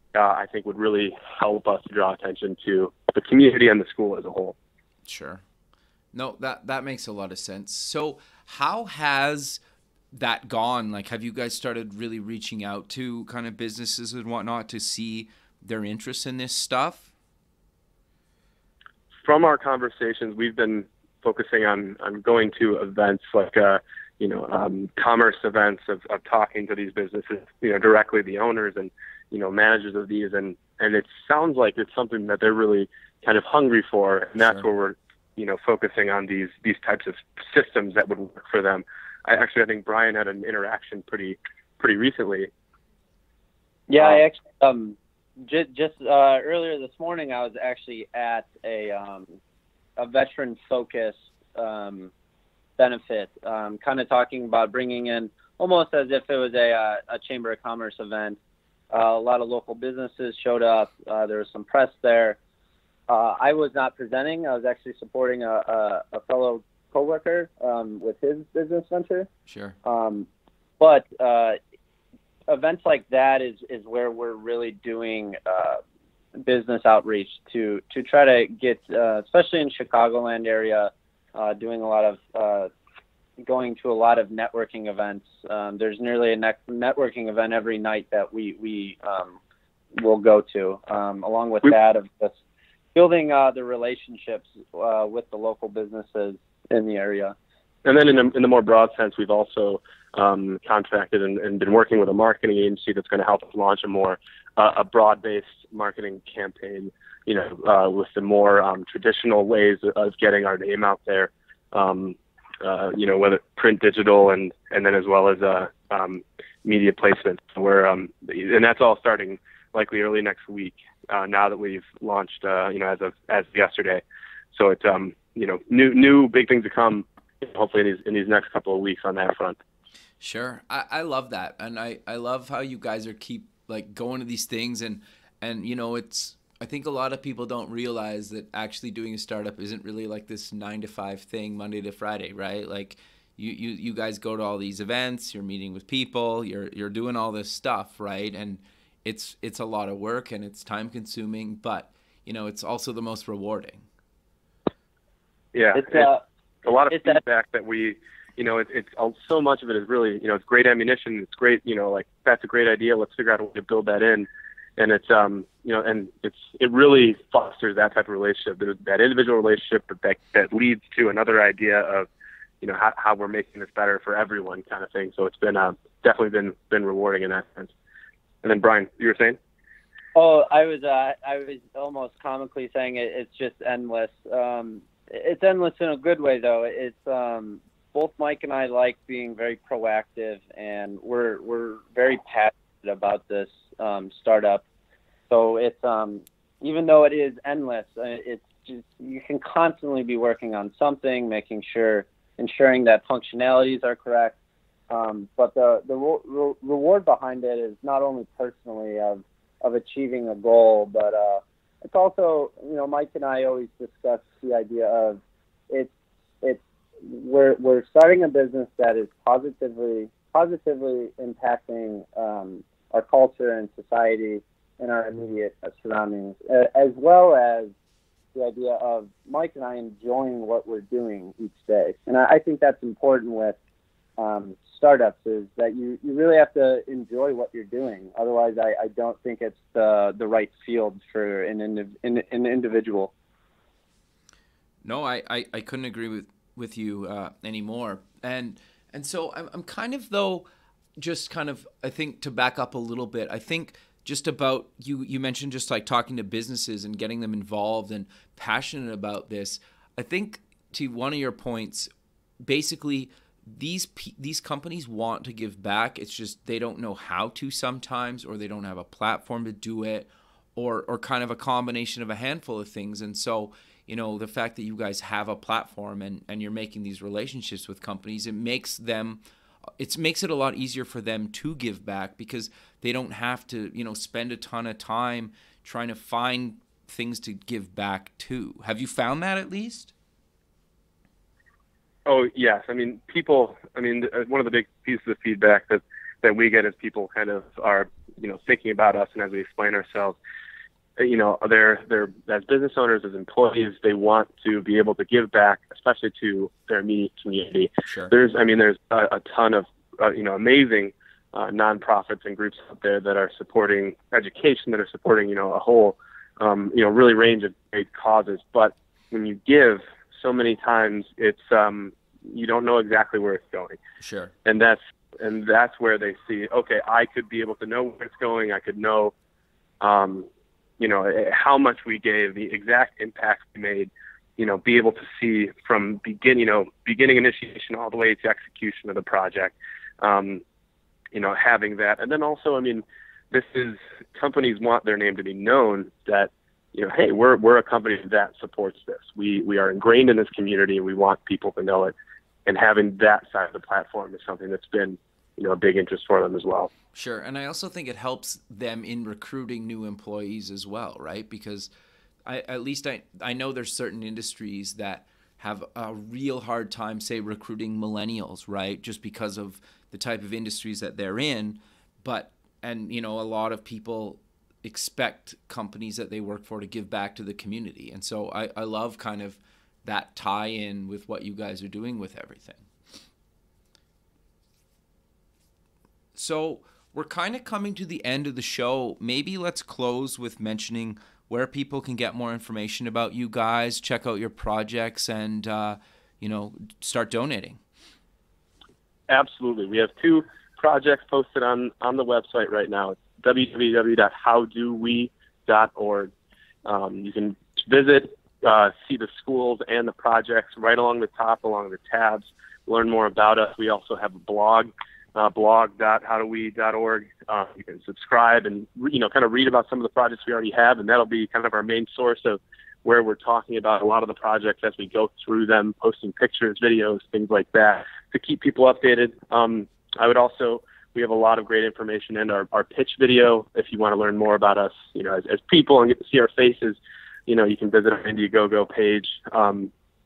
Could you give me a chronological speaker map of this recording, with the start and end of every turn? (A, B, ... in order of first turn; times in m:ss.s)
0:00.1-0:04.6 A
0:05.0-0:05.4 B
0:06.1-0:09.6 B
0:10.1-0:17.1 B
0:19.2-0:42.5 A
0:43.9-0:49.4 C
0:50.0-0:52.1 C
0:52.8-0:58.4 C
0:58.9-1:02.4 C
1:03.1-1:09.3 C
1:09.5-1:09.8 B
1:09.8-1:10.3 C
1:10.8-1:11.6 C
1:12.5-1:15.8 C
1:16.4-1:22.7 C
1:23.4-1:29.4 C
1:29.9-1:32.4 C
1:32.9-1:37.4 C
1:37.8-2:04.0 A
2:04.5-2:09.6 A
2:10.2-2:33.8 B
2:35.5-2:36.1 A
2:35.7-2:36.2 C
2:36.6-2:52.1 A
2:36.9-2:37.2 C
2:52.6-2:57.7 A
2:58.4-2:59.4 A
3:00.1-3:14.6 C
3:15.3-3:24.4 C
3:24.9-3:47.7 C
3:48.3-3:53.6 C
3:54.2-4:03.1 C
4:04.8-4:10.4 B
4:11.0-4:21.9 B
4:22.4-4:39.2 B
4:39.8-4:49.9 B
4:52.0-5:00.2 A
5:01.0-5:23.8 A
5:07.8-5:08.1 B
5:24.0-5:24.3 B
5:24.4-5:29.1 A
5:29.8-5:30.3 A
5:30.8-5:40.4 A
5:41.1-5:51.9 A
5:52.4-5:56.7 A
5:56.9-6:01.7 B
6:02.2-6:22.6 B
6:26.1-6:37.6 B
6:39.1-6:46.1 A
6:46.6-7:19.7 A